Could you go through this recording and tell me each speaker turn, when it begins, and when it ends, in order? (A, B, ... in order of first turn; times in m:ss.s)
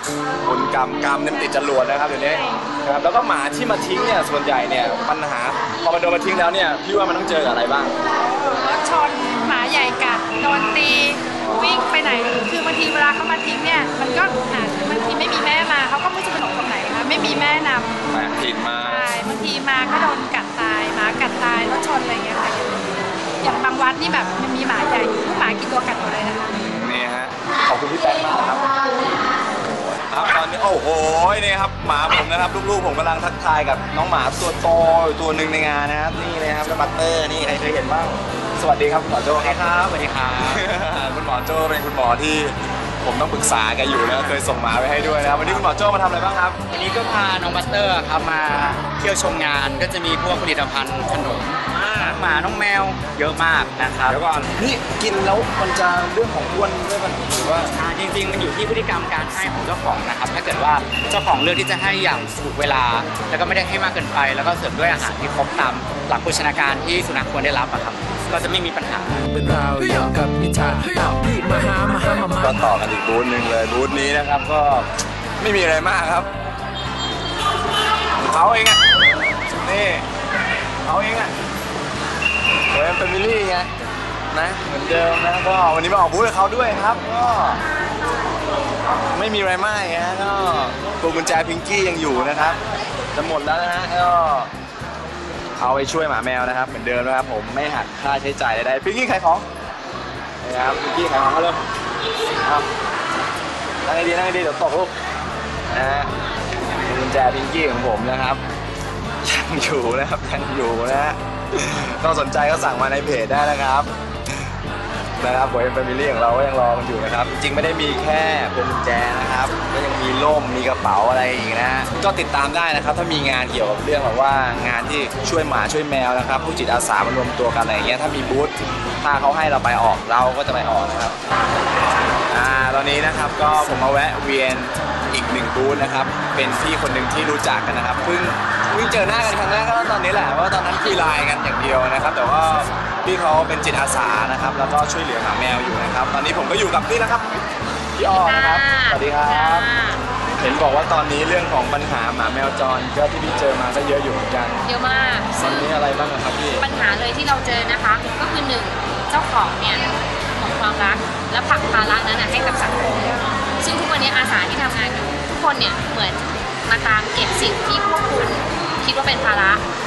0:00.4-0:07.9 A
0:08.1-0:18.0 B
0:11.4-0:11.7 A
0:18.1-0:19.1 A
0:18.8-0:22.9 B
0:23.4-0:26.5 B
0:26.6-0:28.7 A
0:29.4-0:39.9 A
0:39.3-0:40.6 C
0:40.4-0:46.6 A
0:46.7-0:54.2 C
0:54.1-0:57.7 A
0:57.8-1:09.2 C
1:09.1-1:12.6 D
1:12.4-1:16.3 A
1:18.2-1:18.8 A
1:19.6-1:20.0 A
1:20.8-1:21.3 A
1:22.7-1:23.7 A
1:24.3-1:27.6 A
1:29.1-1:32.6 A
1:33.1-1:34.5 A
1:35.6-1:39.4 A
1:40.4-1:41.6 A
1:42.4-1:42.7 A
1:43.8-1:44.9 A
1:45.7-1:46.1 A
1:46.8-1:48.4 A
1:49.2-1:53.9 A
1:55.2-2:11.1 A
2:12.3-2:27.4 A
2:27.9-2:29.7 A
2:28.0-2:30.0 E
2:30.4-2:34.6 A
2:34.6-2:35.6 E
2:35.4-2:36.6 A
2:36.6-2:49.6 E